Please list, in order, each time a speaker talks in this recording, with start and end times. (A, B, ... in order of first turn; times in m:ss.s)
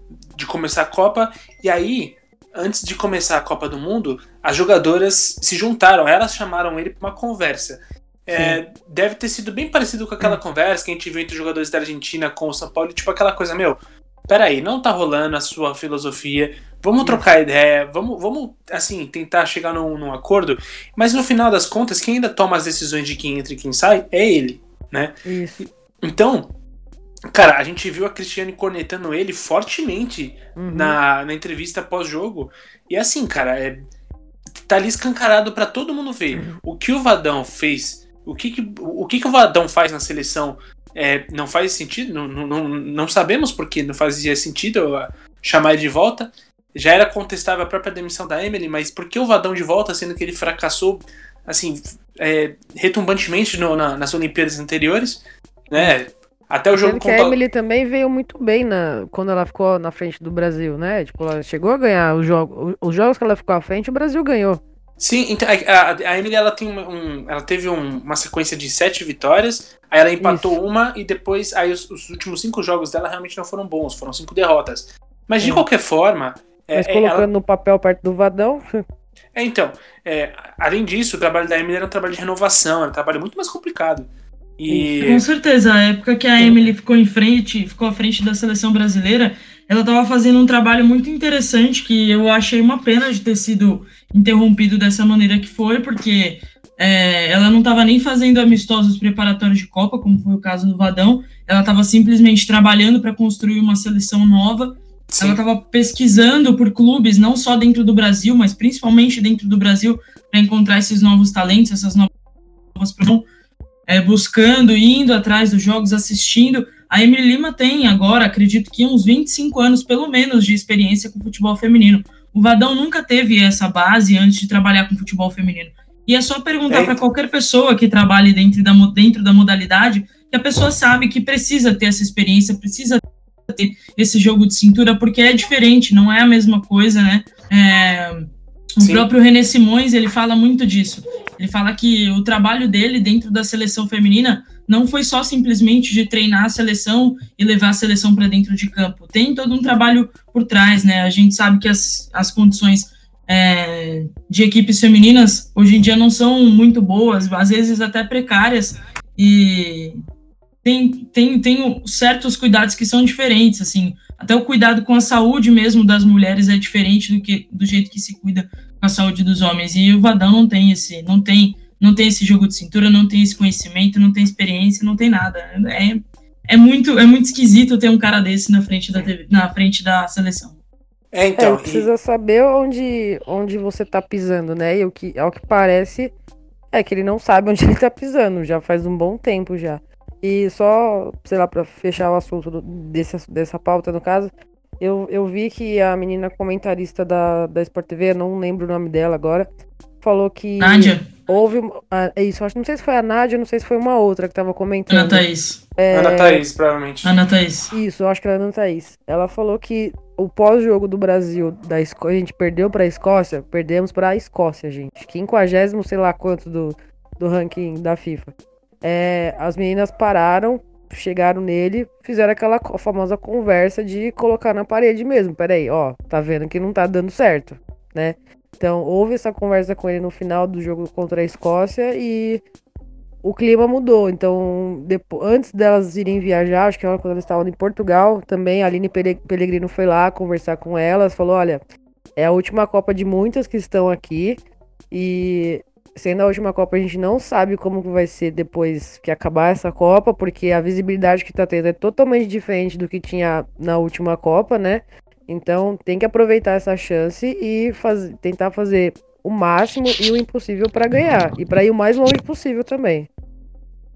0:00.3-0:26.5 A
0:08.3-0:08.6 B
0:17.0-0:17.3 B
0:25.2-0:25.6 B
0:27.3-0:33.8 A
0:30.6-0:31.0 B
0:34.6-0:57.4 A
0:36.3-0:36.6 B
0:56.7-1:04.6 B
1:05.0-1:17.3 A
1:10.2-1:10.6 B
1:15.4-1:15.6 B
1:16.7-1:18.6 B
1:19.3-1:25.2 A
1:24.7-1:24.9 B
1:25.0-1:52.1 C
1:45.1-1:45.4 A
1:52.7-1:53.3 C
1:53.9-2:40.0 C
2:06.7-2:07.0 A
2:18.8-2:19.1 A
2:40.6-3:00.6 C
3:01.1-3:01.9 A
3:01.4-3:06.1 B
3:06.7-3:19.5 B
3:20.0-3:25.2 B
3:20.6-3:21.1 C
3:24.9-3:25.6 C
3:25.8-3:26.4 B
3:25.9-3:27.2 A
3:27.0-3:27.7 C
3:27.7-3:52.4 B
3:53.2-4:01.6 B
4:02.2-4:04.4 B
4:04.9-4:23.1 B